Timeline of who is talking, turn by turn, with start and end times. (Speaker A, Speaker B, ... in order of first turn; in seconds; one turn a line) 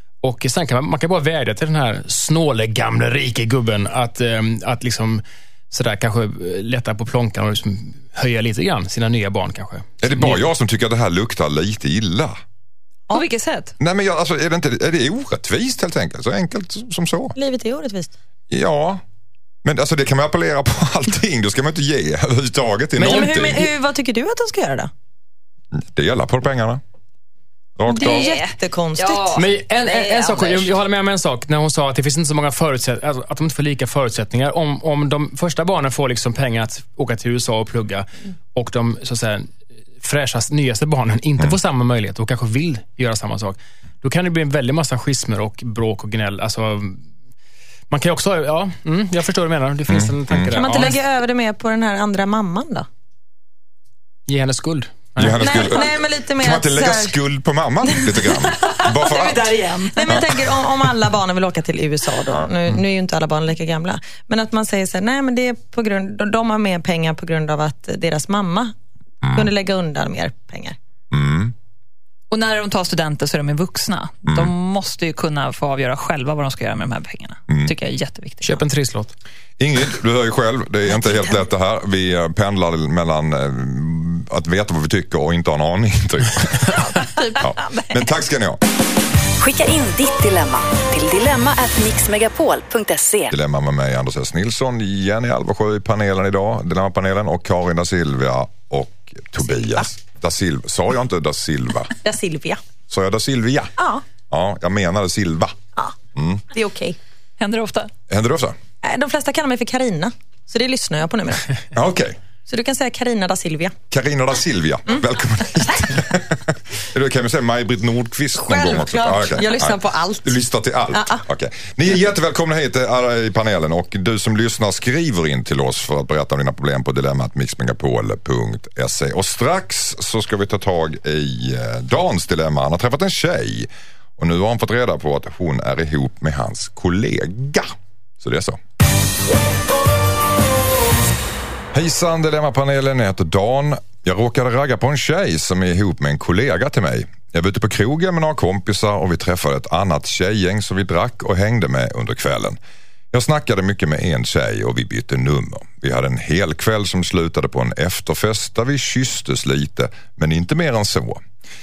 Speaker A: 0.2-10.4
Speaker B: 10.0-12.3
Speaker C: 13.1-13.7
Speaker B: 13.8-17.4
Speaker D: 17.3-18.1
Speaker B: 18.5-19.0
Speaker B: 19.6-23.7
Speaker A: 23.0-23.7
Speaker D: 23.0-24.9
Speaker B: 25.7-26.8
Speaker B: 27.8-28.3
Speaker D: 27.9-29.4
Speaker C: 27.9-30.7
Speaker A: 29.3-47.0
Speaker A: 47.9-51.0
Speaker B: 49.9-50.6
Speaker D: 50.5-52.9
Speaker A: 54.3-55.6
Speaker B: 55.2-59.5
Speaker D: 55.2-57.1
Speaker D: 57.8-58.3
Speaker C: 58.3-60.2
Speaker D: 60.0-68.7
Speaker B: 60.1-60.4
Speaker B: 69.2-69.5
Speaker D: 69.3-70.8
Speaker B: 71.1-71.5
Speaker C: 72.3-78.6
Speaker B: 74.3-74.5
Speaker A: 78.4-79.1
Speaker B: 79.6-86.8
Speaker C: 86.9-88.0
Speaker B: 87.4-88.6
Speaker E: 89.4-93.3
Speaker B: 93.3-101.9
Speaker D: 102.0-102.6
Speaker B: 102.9-103.7
Speaker D: 103.8-104.0
Speaker B: 104.3-105.6
Speaker B: 106.1-106.4
Speaker D: 106.5-107.0
Speaker C: 107.4-107.9
Speaker B: 108.1-108.5
Speaker D: 108.8-111.6
Speaker B: 111.7-112.2
Speaker D: 112.5-113.7
Speaker B: 113.9-137.7
Speaker D: 118.3-120.4
Speaker D: 120.9-121.2
Speaker B: 138.2-138.6
Speaker B: 141.7-152.6
Speaker B: 153.1-161.2